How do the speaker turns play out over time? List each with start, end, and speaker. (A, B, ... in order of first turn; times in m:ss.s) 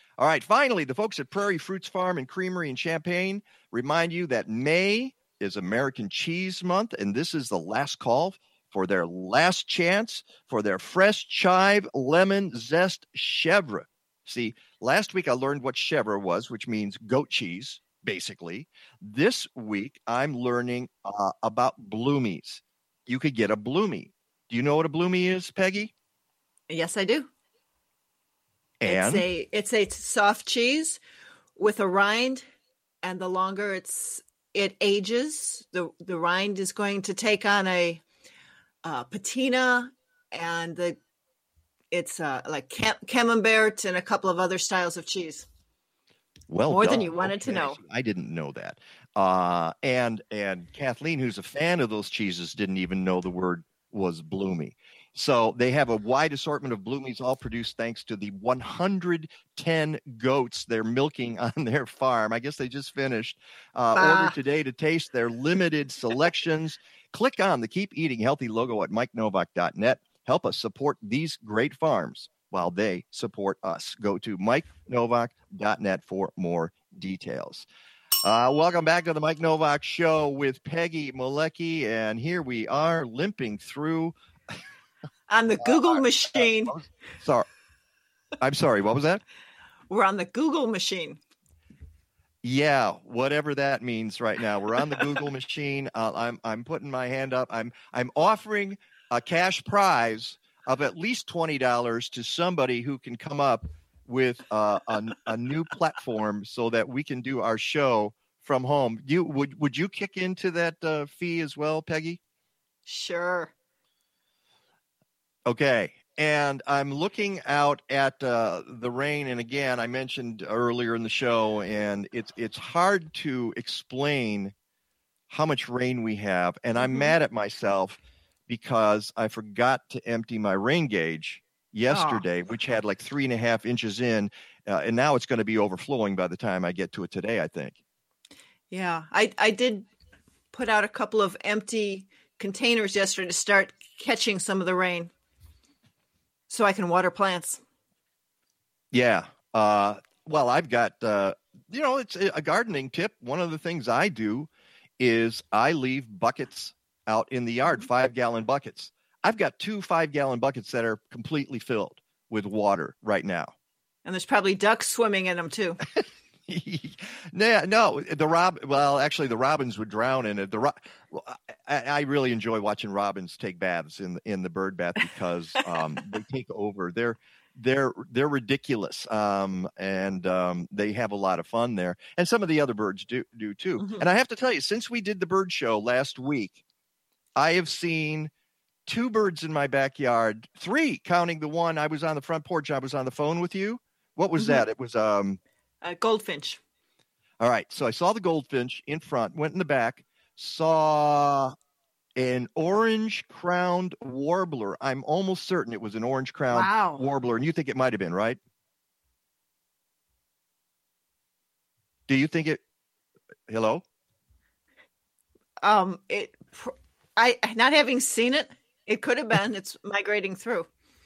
0:00.2-0:25.9 A
0:26.7-0:27.3 B
0:28.8-0:29.2 A
0:28.8-0:31.0 B
0:31.6-0:32.4 B
0:33.0-0:38.0 B
0:38.8-0:41.0 B
0:41.9-0:45.4 B
0:46.5-1:17.7 A
0:46.7-0:47.8 B
1:03.9-1:04.3 B
1:18.2-1:24.1 A
1:25.3-1:26.7 B
1:25.6-1:27.5 A
1:28.4-1:29.2 A
1:29.9-1:31.2 B
1:32.4-1:52.2 A
1:52.9-1:53.5 B
1:55.4-2:04.5 A
2:05.3-2:17.8 A
2:06.8-2:07.1 B
2:11.9-2:12.2 B
2:18.7-2:19.9 B
2:20.5-2:25.1 B
2:26.5-2:27.6 B
2:28.9-2:43.5 A
2:44.0-2:45.8 B
2:46.0-3:06.6 A
3:07.4-3:08.3 A
3:08.9-3:15.4 A
3:14.4-3:14.6 B
3:15.8-3:16.6 B
3:17.4-3:21.5 A
3:22.2-3:28.4 A
3:26.5-3:27.0 B
3:32.1-3:32.6 A
3:33.5-3:33.8 A
3:35.6-3:40.7 B